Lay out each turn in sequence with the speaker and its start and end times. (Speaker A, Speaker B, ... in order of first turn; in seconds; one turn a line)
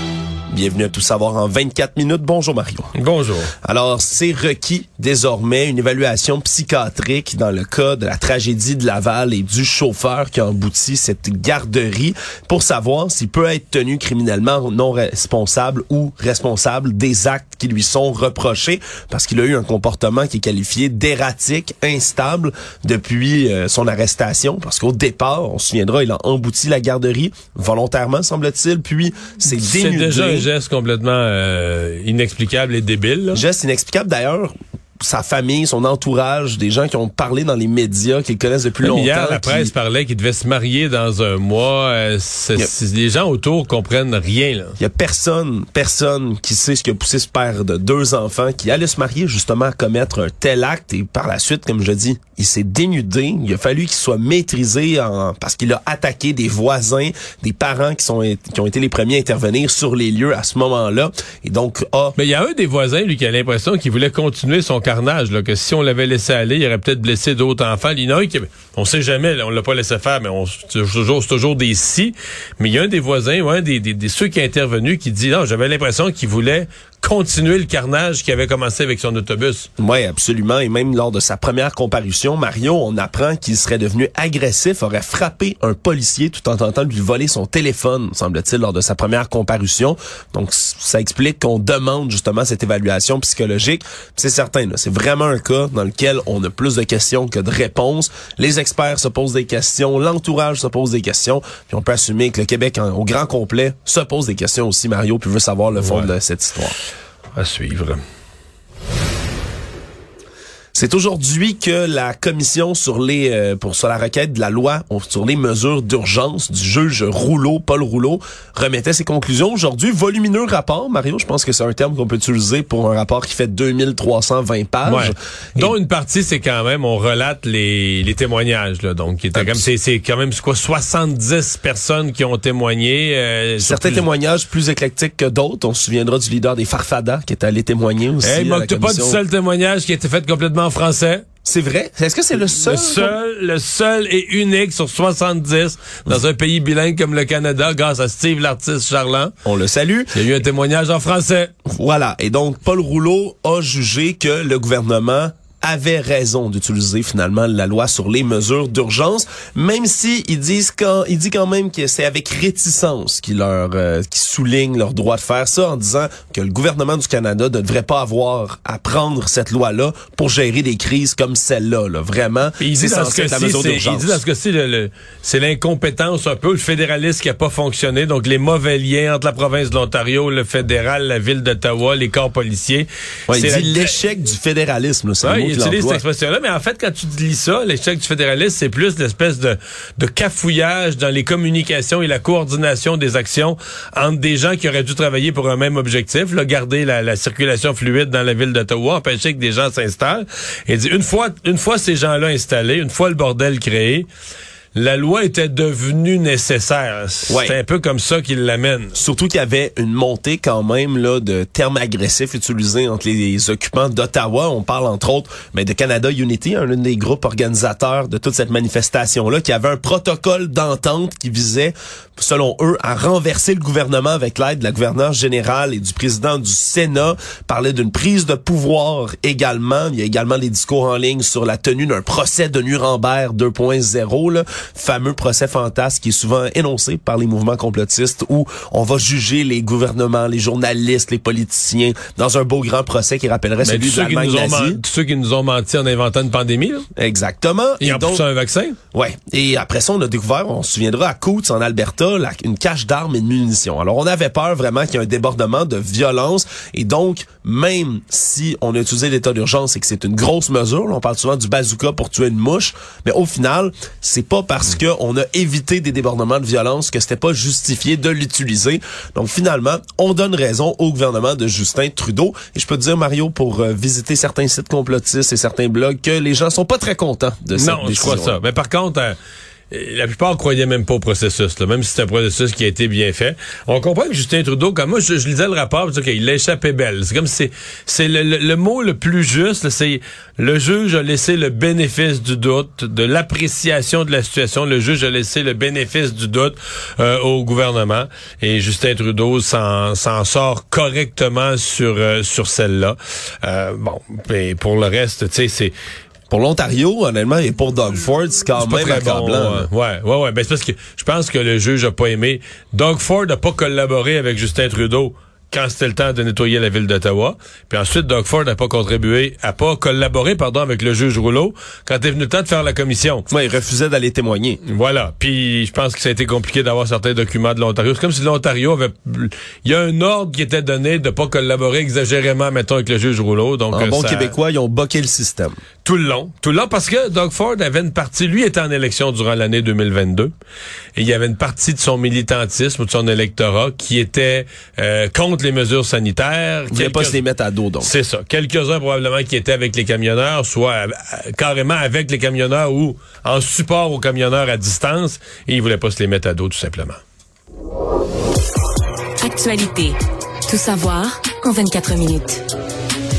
Speaker A: 0.5-2.9
Speaker B: 2.9-3.5
Speaker A: 3.6-30.5
Speaker B: 29.5-33.4
Speaker A: 33.3-39.7
Speaker B: 38.8-44.8
Speaker A: 44.8-62.1
Speaker B: 62.2-79.7
Speaker A: 79.8-106.8
Speaker B: 105.8-106.1
Speaker B: 107.3-108.0
Speaker A: 110.7-125.7
Speaker B: 124.8-134.0
Speaker A: 129.3-129.7
Speaker A: 133.6-139.2
Speaker B: 138.2-141.2
Speaker A: 141.4-143.1
Speaker B: 142.4-149.3
Speaker A: 149.4-150.1
Speaker B: 150.1-151.5
Speaker A: 151.6-174.2
Speaker B: 172.6-183.9
Speaker A: 183.3-186.0
Speaker B: 185.2-204.1
Speaker B: 204.7-208.9
Speaker A: 207.3-207.6
Speaker A: 208.9-244.8
Speaker B: 243.6-246.8
Speaker A: 246.9-248.2
Speaker B: 247.8-248.8
Speaker A: 248.9-278.4
Speaker B: 277.5-279.2
Speaker B: 279.7-305.7
Speaker A: 306.3-309.7
Speaker B: 308.6-323.3
Speaker A: 323.3-324.6
Speaker B: 324.6-334.3
Speaker A: 333.7-335.6
Speaker B: 335.8-340.3
Speaker B: 340.9-347.2
Speaker A: 346.7-347.9
Speaker B: 347.8-357.0
Speaker C: 359.2-362.4